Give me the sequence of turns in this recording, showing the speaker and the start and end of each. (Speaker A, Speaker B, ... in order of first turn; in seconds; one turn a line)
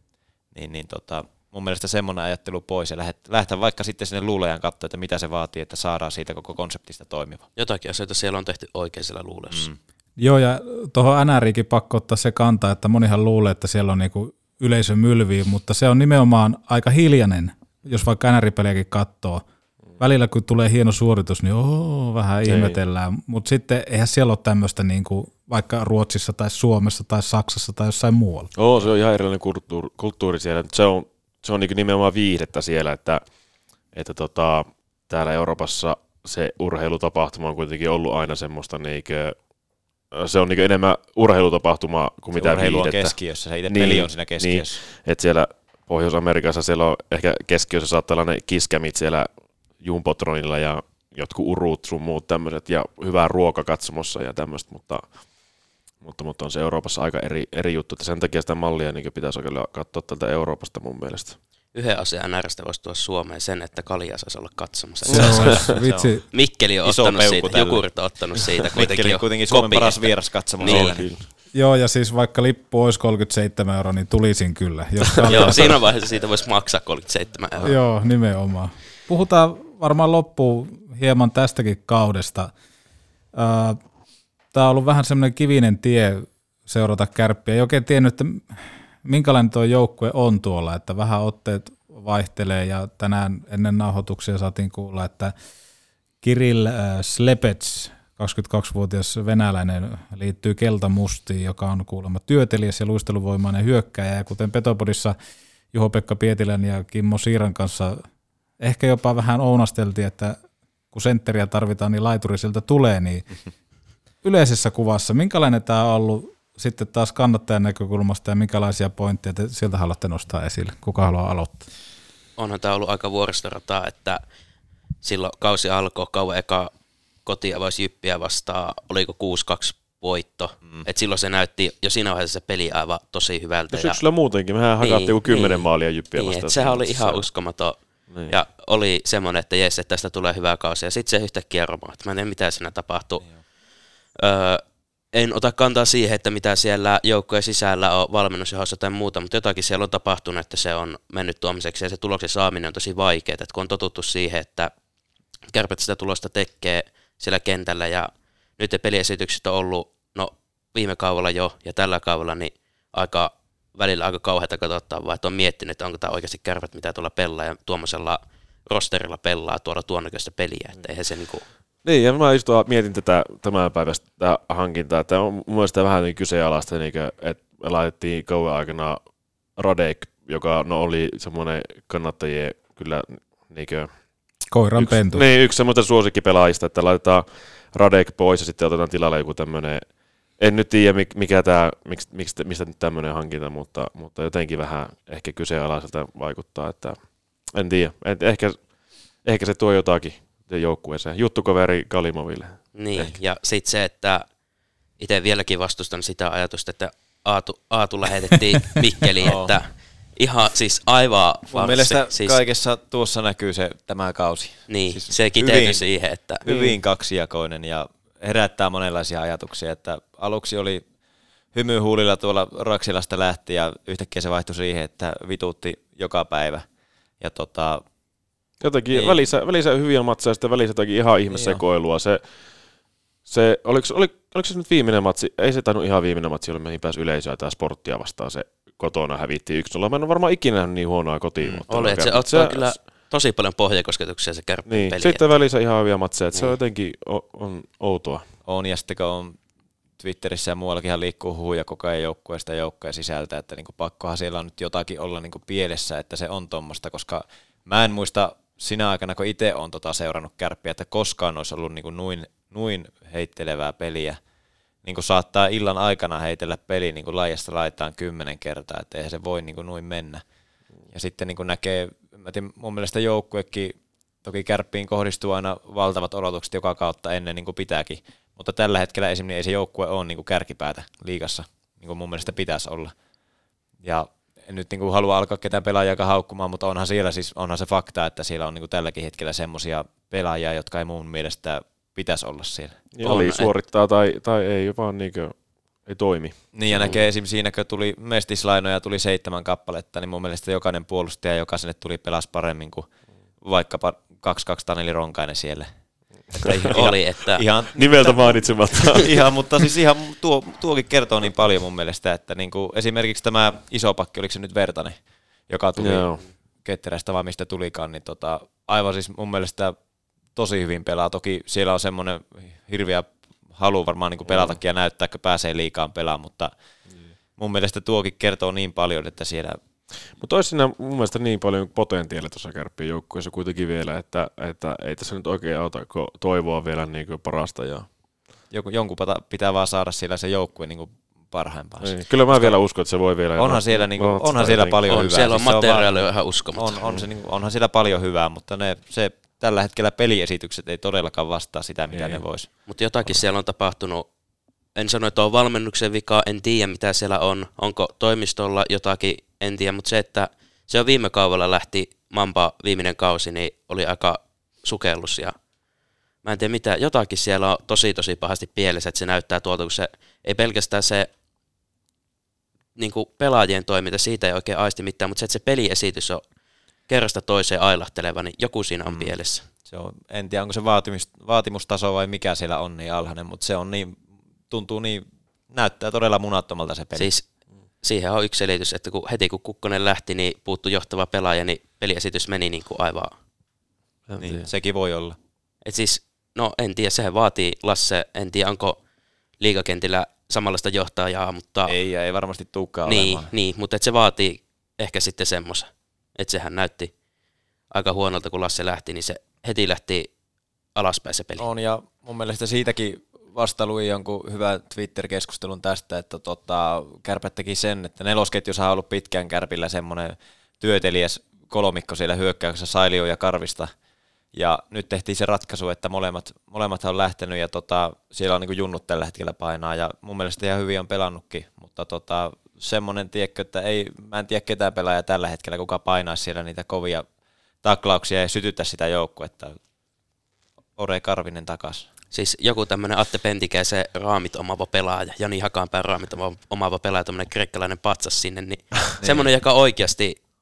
Speaker A: 0.5-7.5
Speaker B: 7.5-9.7
Speaker A: 9.5-9.8
Speaker C: 10.2-19.4
Speaker C: 20.0-28.5
Speaker D: 22.4-22.8
Speaker D: 28.5-33.2
Speaker D: 33.9-39.4
Speaker D: 40.1-43.1
Speaker A: 42.3-44.8
Speaker D: 43.7-55.1
Speaker D: 56.0-61.4
Speaker B: 61.7-65.7
Speaker D: 65.1-65.6
Speaker A: 65.1-66.3
Speaker C: 65.1-66.2
Speaker B: 66.3-71.0
Speaker A: 66.8-67.9
Speaker A: 68.6-71.1
Speaker D: 70.6-71.2
Speaker C: 71.5-75.8
Speaker D: 75.2-75.7
Speaker B: 75.3-77.7
Speaker C: 77.6-82.5
Speaker C: 83.3-83.8
Speaker C: 84.5-95.3
Speaker C: 96.2-105.2
Speaker C: 105.7-108.0
Speaker C: 108.6-110.4
Speaker C: 110.9-113.2
Speaker C: 114.2-121.7
Speaker B: 122.4-124.2
Speaker B: 125.0-126.7
Speaker B: 127.2-134.0
Speaker D: 133.7-137.2
Speaker B: 134.8-143.3
Speaker D: 138.1-138.3
Speaker B: 144.2-144.6
Speaker B: 145.1-154.7
Speaker B: 155.5-171.4
Speaker D: 171.8-179.0
Speaker D: 179.6-183.9
Speaker C: 184.5-185.2
Speaker D: 184.8-189.9
Speaker D: 190.4-198.7
Speaker D: 199.2-202.7
Speaker B: 202.7-204.3
Speaker B: 205.0-212.4
Speaker A: 209.2-209.5
Speaker A: 211.5-215.9
Speaker B: 214.7-216.4
Speaker A: 216.4-220.8
Speaker A: 221.5-226.7
Speaker A: 227.2-227.8
Speaker D: 228.6-232.3
Speaker A: 228.9-229.2
Speaker A: 231.3-231.6
Speaker D: 233.2-242.7
Speaker B: 241.7-245.4
Speaker D: 244.7-248.3
Speaker A: 248.4-249.4
Speaker A: 250.0-264.2
Speaker A: 264.8-270.2
Speaker A: 270.9-282.9
Speaker A: 283.8-292.8
Speaker D: 292.9-297.0
Speaker B: 293.0-293.5
Speaker A: 296.5-302.9
Speaker A: 303.4-305.7
Speaker D: 306.3-306.9
Speaker A: 306.4-308.3
Speaker B: 306.4-307.4
Speaker D: 307.7-309.1
Speaker A: 308.9-319.8
Speaker D: 315.8-316.2
Speaker A: 320.3-326.5
Speaker D: 324.3-324.6
Speaker A: 327.4-329.6
Speaker D: 330.1-337.9
Speaker A: 338.5-342.6
Speaker D: 341.8-345.1
Speaker A: 343.4-345.9
Speaker B: 344.9-346.8
Speaker A: 346.5-352.5
Speaker D: 351.9-352.2
Speaker B: 352.7-354.1
Speaker B: 354.8-365.3
Speaker B: 366.2-371.1
Speaker B: 372.8-376.2
Speaker B: 376.9-379.4
Speaker A: 378.8-379.1
Speaker A: 379.6-387.1
Speaker B: 386.9-387.2
Speaker B: 387.8-393.1
Speaker D: 394.1-394.5
Speaker A: 394.2-395.2
Speaker B: 395.6-398.8
Speaker B: 399.4-401.7
Speaker A: 401.6-403.3
Speaker B: 402.9-406.9
Speaker B: 407.7-410.1
Speaker B: 410.8-411.4
Speaker A: 411.4-423.7
Speaker A: 424.3-437.1
Speaker A: 437.6-439.6
Speaker A: 440.8-441.9
Speaker B: 442.1-450.2
Speaker A: 449.0-449.3